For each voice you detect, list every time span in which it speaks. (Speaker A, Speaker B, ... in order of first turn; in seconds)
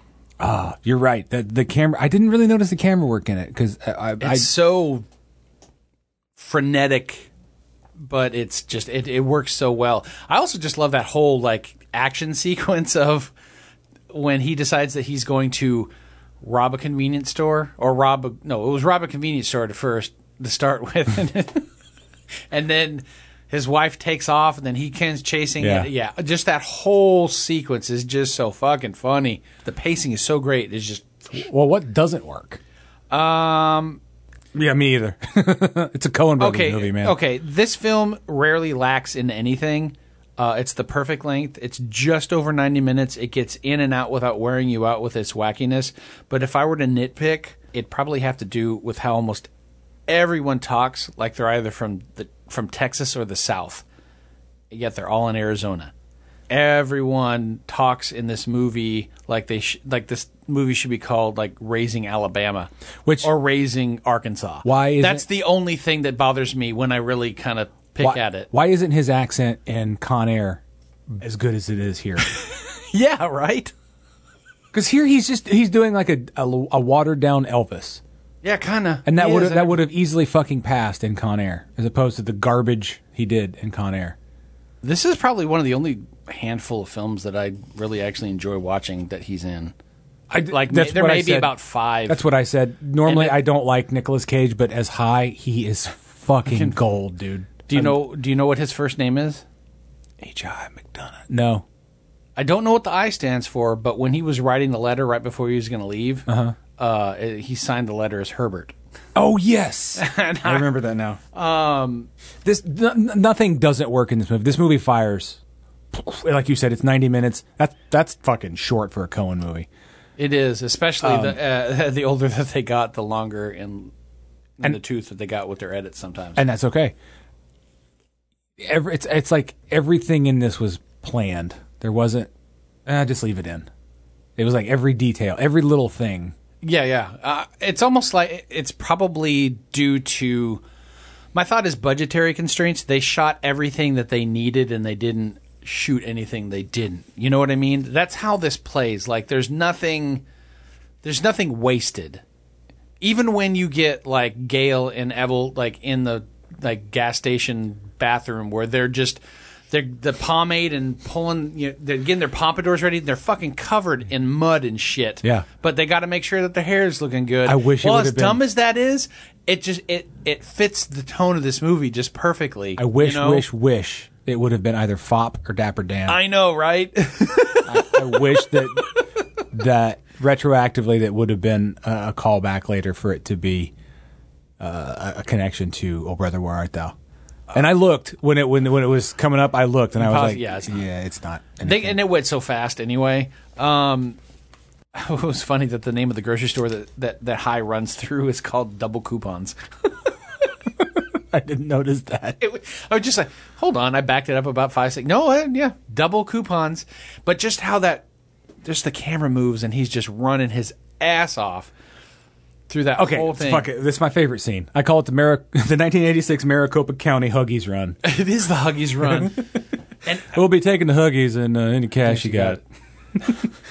Speaker A: 0.4-4.5, 25.6-25.9, 31.3-32.6, 34.5-37.2, 63.0-63.3, 64.6-65.3, 68.0-70.6, 71.1-72.2, 74.7-78.0, 79.0-84.2, 90.3-91.5, 92.0-98.0, 100.2-101.6, 106.3-106.5, 109.1-111.2, 112.4-115.4, 115.9-119.7, 121.0-121.4, 126.4-126.9, 128.6-132.3, 132.9-133.7, 134.4-136.3, 167.4-168.4, 172.8-176.2, 177.6-178.9, 179.5-183.7, 184.6-186.9, 187.5-192.0, 201.3-202.4, 212.9-218.0, 219.1-219.3, 220.3-222.6
Speaker B: 4.2-5.0, 6.4-7.3, 8.0-13.3, 14.1-15.9, 16.4-21.7, 22.5-31.2, 33.1-34.0, 36.4-49.5, 50.1-53.9, 54.7-55.9, 56.5-62.7, 63.2-68.5, 72.4-73.7, 78.4-79.8, 84.8-89.7, 90.5-92.2, 93.0-93.4, 96.5-96.8, 97.7-99.4, 102.4-108.8, 110.0-110.8, 111.3-112.1, 120.2-123.9, 124.6-126.4, 136.6-140.6, 141.3-150.2, 151.0-152.2, 153.0-173.5, 176.1-178.5, 190.0-190.8, 191.6-194.2, 194.9-199.6, 202.4-208.0, 208.6-211.7, 212.7-213.7, 218.0-219.4, 220.0-220.3, 222.0-222.6